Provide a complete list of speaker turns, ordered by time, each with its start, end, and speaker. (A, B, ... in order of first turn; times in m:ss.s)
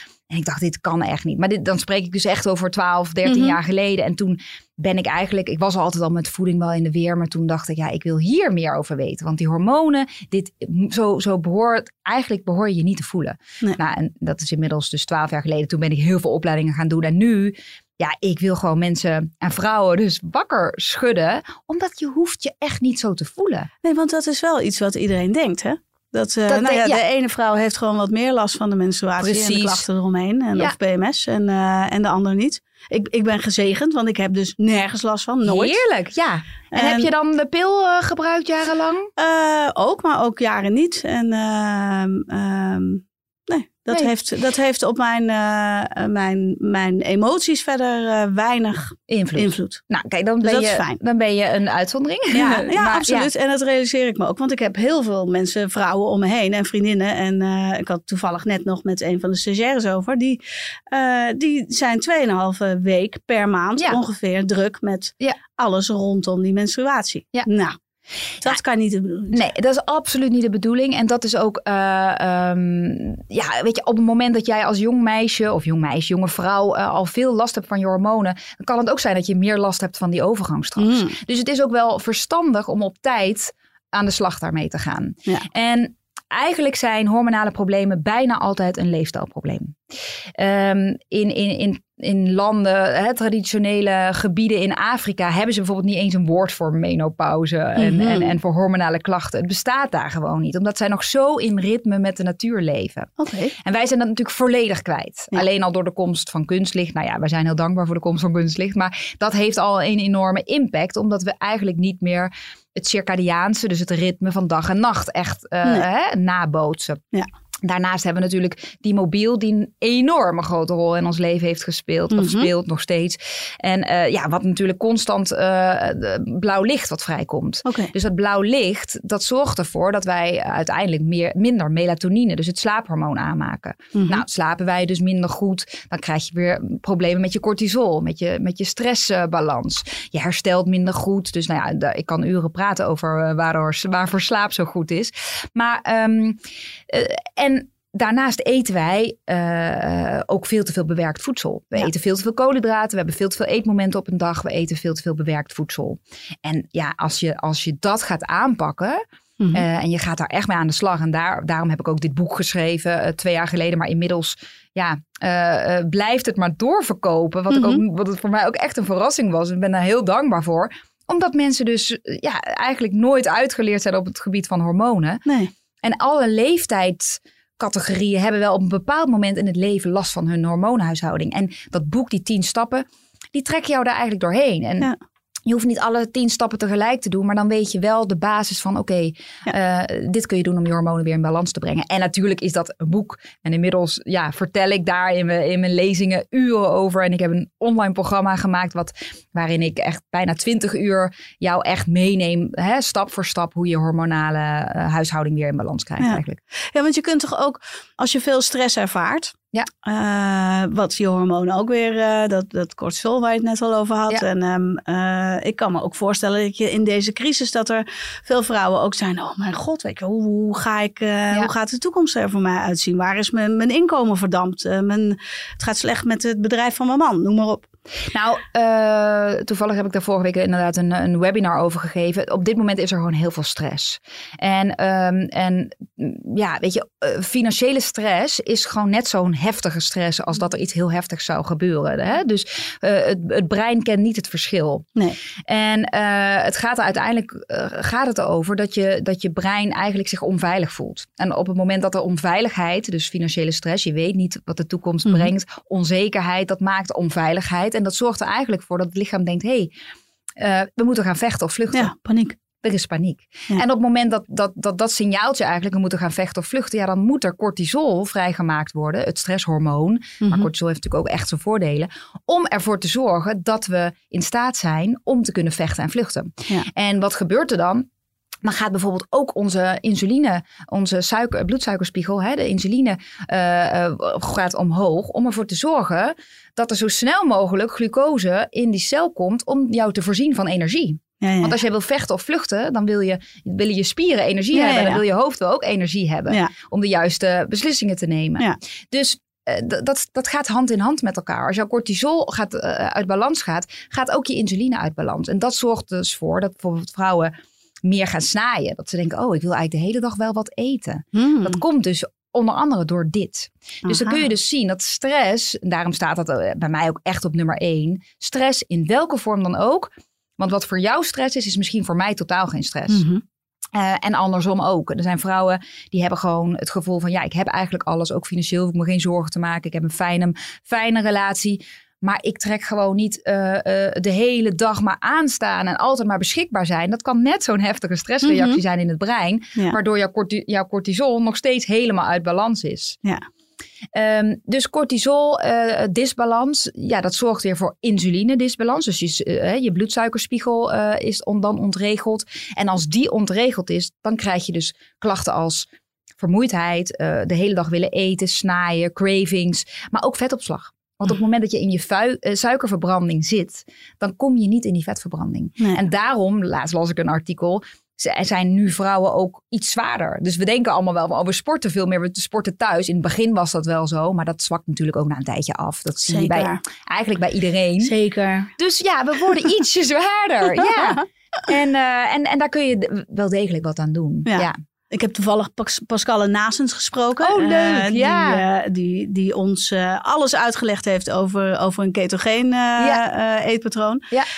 0:00.3-0:23.7 A
0:03.2-0:03.6 B
0:23.8-0:35.8 B
0:26.5-0:27.0 A
0:29.2-0:29.8 A
0:35.4-0:39.1 A
0:36.7-0:37.1 B
0:39.2-0:49.8 B
0:49.1-0:53.3 A
0:50.4-0:51.0 B
0:52.3-1:07.8 B
1:08.4-1:09.4 B
1:09.3-1:29.8 A
1:20.8-1:21.2 B
1:30.4-1:57.0 A
1:37.8-1:38.3 B
1:43.2-1:43.5 B
1:57.6-2:55.2 A
2:02.1-2:02.5 B
2:07.6-2:07.9 B
2:13.9-2:14.2 B
2:39.4-2:39.6 B
2:47.5-2:47.8 B
2:55.2-2:55.5 B
2:55.8-3:04.9 A
3:05.4-3:26.4 A
3:26.0-3:47.7 B
3:48.1-4:04.9 A
4:05.4-4:19.7 A
4:20.4-4:21.9 A
4:21.7-4:22.4 B
4:22.6-4:37.9 A
4:30.2-4:30.5 B
4:38.4-5:23.0 A
4:51.2-4:51.6 B
4:54.5-4:55.0 B
5:11.1-5:11.6 B
5:13.8-5:14.2 B
5:22.9-5:23.2 B
5:23.7-5:43.0 A
5:38.2-5:38.6 B
5:43.9-5:55.7 A
5:56.2-6:17.9 A
6:16.0-6:16.6 B
6:17.8-6:18.5 B
6:18.6-6:24.6 A
6:20.7-6:21.0 B
6:24.2-6:34.1 B
6:27.2-6:28.4 A